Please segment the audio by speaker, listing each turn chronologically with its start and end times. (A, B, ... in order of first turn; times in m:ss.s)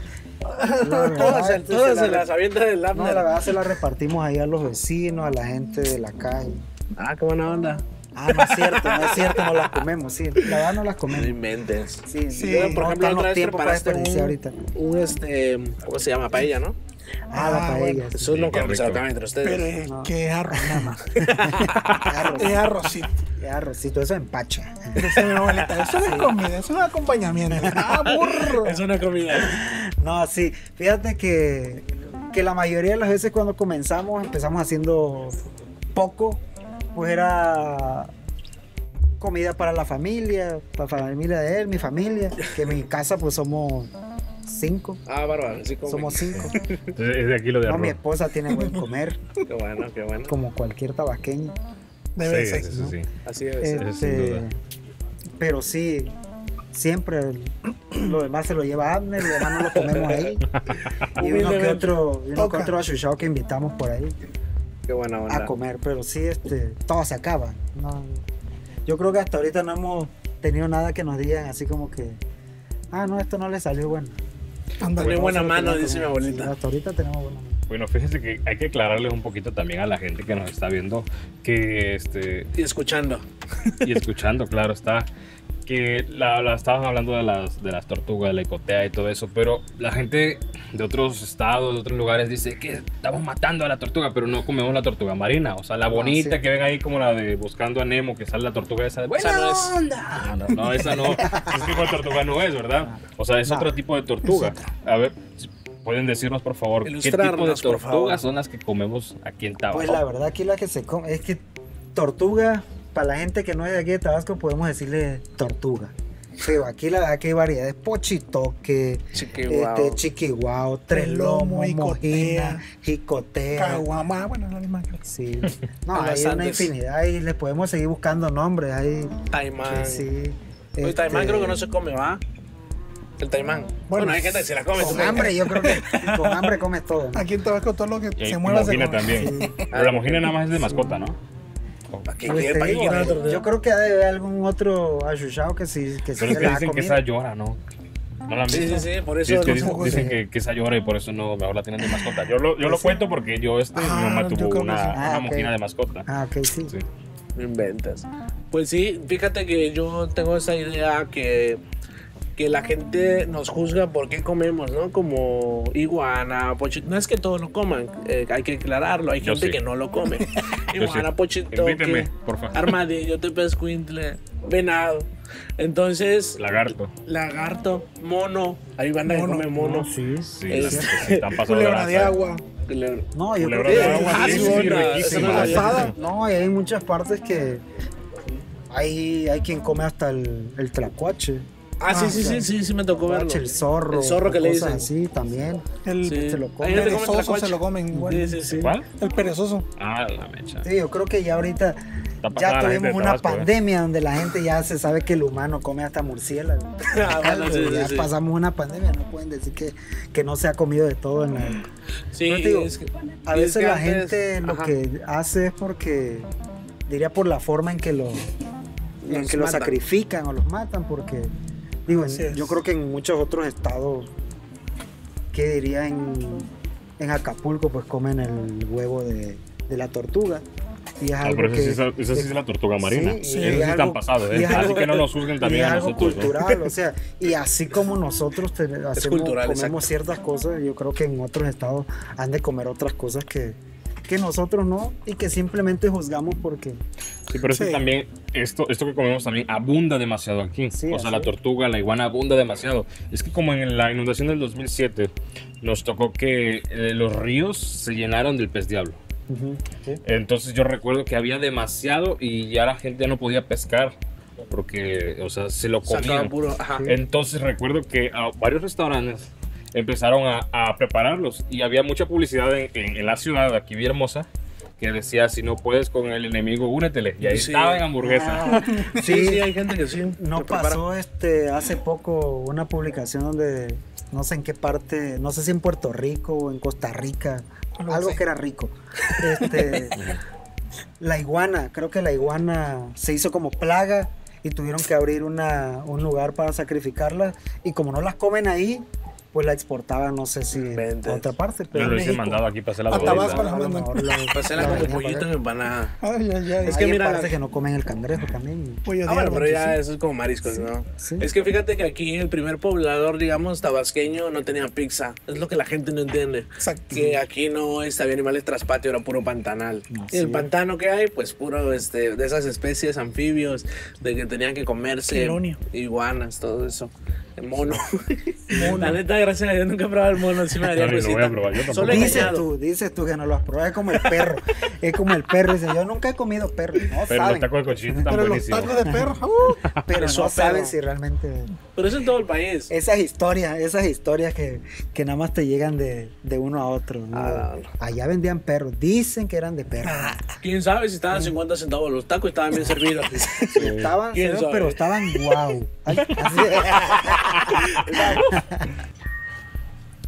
0:00.5-0:01.4 A
0:00.8-0:02.3 B
0:01.1-0:03.4 C
0:02.9-0:06.6 B
0:07.0-0:09.9 C
0:08.1-0:11.4 B
0:11.1-0:16.8 C
0:12.0-0:14.6 B
0:12.3-0:12.8 A
0:17.3-0:18.4 B
0:17.3-0:18.1 A
0:18.1-0:19.8 C
0:18.3-0:19.0 D
0:19.4-0:23.2 A
0:19.8-0:22.7 B
0:21.2-0:22.3 C
0:23.4-0:25.1 B
0:24.9-0:28.8 A
0:25.1-0:25.9 C
0:26.0-0:26.4 B
0:27.5-0:28.1 B
0:27.8-0:29.6 C
0:29.3-0:35.4 B
0:35.9-0:36.4 B
0:36.9-0:38.1 B
0:39.2-0:43.9 B
0:44.4-0:45.0 B
0:45.0-0:46.9 C
0:45.8-0:46.6 B
0:46.3-0:48.0 D
0:47.6-0:49.2 B
0:49.4-0:50.3 C
0:50.3-0:51.6 B
0:52.2-0:52.7 A
0:52.2-0:53.0 D
0:52.7-0:53.0 B
0:53.2-0:53.8 C
0:53.6-0:54.6 B
0:53.8-0:54.4 D
0:55.4-0:56.1 B
0:56.7-1:00.4 B
0:59.6-1:00.3 C
1:00.5-1:01.1 D
1:01.2-1:02.0 C
1:01.2-1:04.1 B
1:02.4-1:02.7 A
1:04.9-1:05.5 C
1:05.3-1:08.2 B
1:08.8-1:12.2 B
1:12.9-1:14.2 B
1:14.8-1:15.4 A
1:14.9-1:16.5 C
1:15.0-1:17.6 B
1:17.7-1:22.5 D
1:22.6-1:24.0 C
1:23.8-1:25.1 D
1:25.7-1:50.0 D
1:35.9-1:36.4 B
1:39.2-1:40.3 C
1:40.7-1:41.9 B
1:40.8-1:41.1 C
1:43.4-1:43.7 B
1:46.8-1:48.2 C
1:49.7-1:51.4 B
1:51.9-2:03.8 B
1:59.1-2:00.0 C
2:00.9-2:02.6 A
2:03.5-2:05.0 A
2:05.1-2:11.6 B
2:05.9-2:06.7 C
2:09.3-2:10.0 C
2:10.8-2:12.2 C
2:13.2-2:16.5 C
2:13.9-2:15.8 A
2:14.8-2:17.3 B
2:17.1-2:19.5 A
2:18.2-2:21.2 D
2:19.0-2:19.6 B
2:19.7-2:20.3 C
2:20.6-2:21.0 B
2:21.9-2:23.0 D
2:22.1-2:23.5 C
2:22.2-2:27.0 B
2:26.2-2:27.6 D
2:28.3-2:36.1 D
2:28.5-2:30.0 C
2:29.4-2:30.2 A
2:29.8-2:30.2 B
2:32.6-2:33.0 B
2:33.7-2:35.0 A
2:34.9-2:35.5 B
2:36.1-2:36.7 B
2:37.3-2:41.6 C
2:42.4-2:56.4 C
2:49.2-2:49.6 D
2:50.7-2:52.8 D
2:56.4-2:56.9 D
2:57.0-2:59.9 C
2:59.0-2:59.8 A
2:59.6-3:01.0 B
3:00.3-3:02.2 D
3:00.5-3:01.2 C
3:01.3-3:02.4 A
3:02.6-3:03.1 C
3:03.1-3:07.6 B
3:03.4-3:05.9 D
3:03.6-3:05.9 C
3:03.7-3:05.9 A
3:08.7-3:12.5 B
3:11.8-3:14.9 C
3:11.9-3:12.4 A
3:13.0-3:17.1 B
3:15.8-3:18.4 A
3:16.0-3:18.7 C
3:17.9-3:18.7 B
3:18.6-3:18.8 D
3:18.9-3:19.7 A
3:19.8-3:20.7 D
3:20.6-3:31.7 B
3:22.2-3:23.5 D
3:26.8-3:28.1 C
3:32.1-3:34.7 C
3:32.2-3:32.7 B
3:33.2-3:36.3 B
3:36.9-3:38.3 B
3:39.0-3:41.3 B
3:39.0-3:39.8 C
3:41.9-3:44.1 B
3:41.9-3:42.6 A
3:45.3-3:50.4 B
3:51.0-4:06.8 B
3:51.2-3:56.4 D
3:53.2-3:53.7 A
3:54.5-3:54.8 C
3:58.9-3:59.8 C
4:07.3-4:19.0 D
4:07.5-4:07.8 A
4:10.7-4:11.3 B
4:19.3-4:20.0 B
4:20.0-4:23.9 D
4:24.5-4:26.3 D
4:25.9-4:26.9 C
4:26.7-4:27.0 B
4:26.9-4:34.3 D
4:34.8-4:38.8 D
4:37.2-4:37.8 C
4:38.0-4:39.5 B
4:38.7-4:39.0 A
4:38.8-4:40.8 C
4:40.2-4:50.1 B
4:47.8-4:48.2 A
4:49.4-4:49.8 A
4:51.0-5:05.3 B
5:00.7-5:01.3 C
5:01.7-5:03.5 D
5:02.9-5:04.9 A
5:04.3-5:06.0 C
5:06.0-5:06.8 A
5:06.6-5:07.3 C
5:06.6-5:08.8 B
5:08.8-5:09.8 A
5:09.0-5:32.4 C
5:10.9-5:11.3 B
5:16.6-5:17.2 A
5:19.9-5:20.5 B
5:25.1-5:25.6 A
5:28.5-5:29.0 B
5:28.5-5:29.0 A
5:30.6-5:32.4 D
5:31.8-5:38.0 B
5:37.1-5:39.9 D
5:38.1-5:39.6 A
5:39.7-5:41.5 B
5:40.0-5:40.7 C
5:41.7-5:42.7 C
5:42.7-5:50.2 B
5:47.1-5:47.7 C
5:49.8-5:50.2 A
5:50.4-5:54.8 C
5:53.1-5:57.3 B
5:53.6-5:53.9 D
5:56.3-5:58.4 C
5:57.9-5:58.7 B